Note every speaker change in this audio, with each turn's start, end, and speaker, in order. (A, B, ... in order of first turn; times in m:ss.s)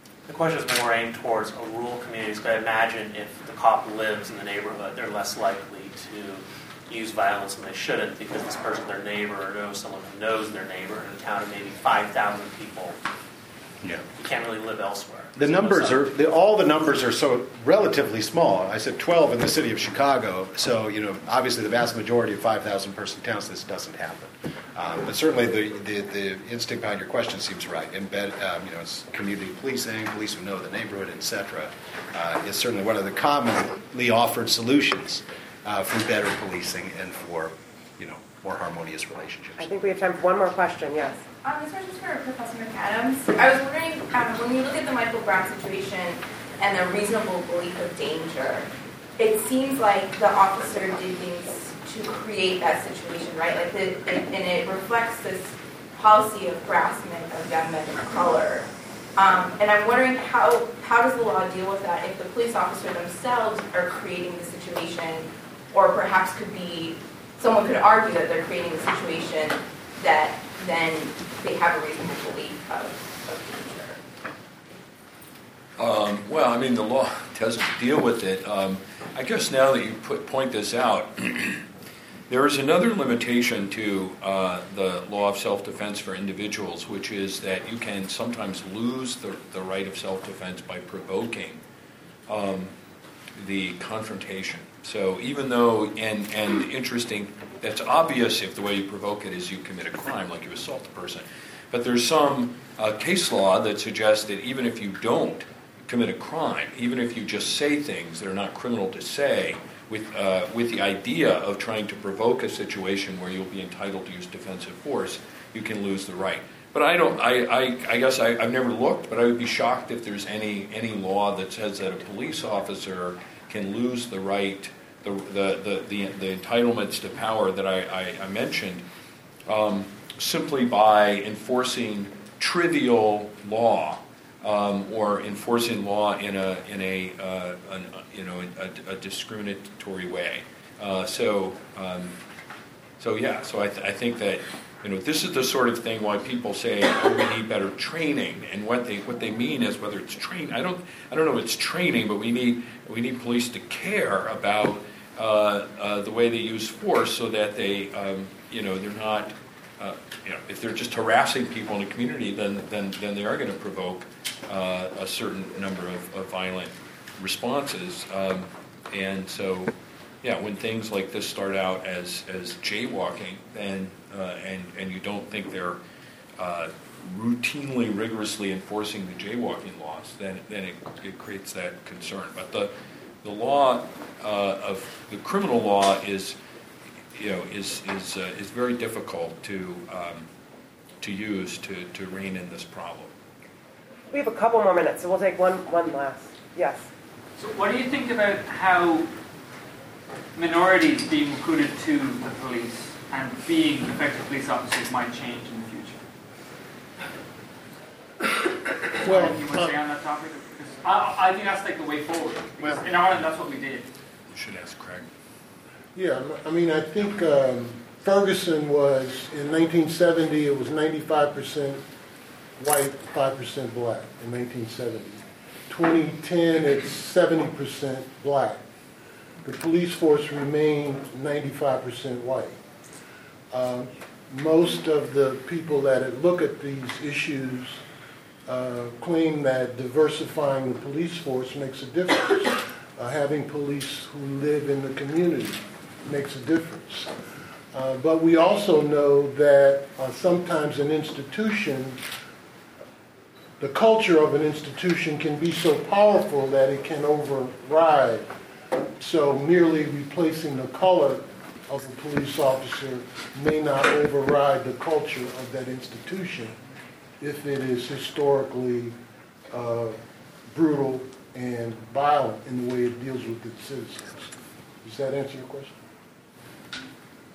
0:00.3-0:13.0 A
0:14.1-0:16.1 A
0:15.4-0:39.7 B
0:39.6-0:41.2 C
0:41.4-1:14.0 D
1:15.8-1:21.6 E
1:22.3-1:31.6 E
1:32.3-1:32.7 E
1:33.4-2:08.8 E
2:09.5-2:22.2 E
2:23.0-2:55.8 E
2:56.4-3:02.7 E
3:03.2-3:06.4 E
3:07.1-3:10.3 E
3:11.0-3:13.1 E
3:14.1-3:16.8 C
3:17.4-3:19.1 F
3:20.3-3:26.0 F
3:29.0-3:29.7 G
3:29.0-3:33.9 F
3:34.3-3:35.1 E
3:35.9-3:41.8 G
3:42.6-3:48.6 G
3:49.4-3:52.5 G
3:53.5-3:57.8 G
3:58.5-4:07.1 G
4:07.7-4:12.0 G
4:13.6-4:18.3 G
4:19.0-4:26.6 G
4:27.2-4:28.9 G
4:29.5-4:30.0 G
4:30.5-4:34.3 G
4:34.8-4:35.8 G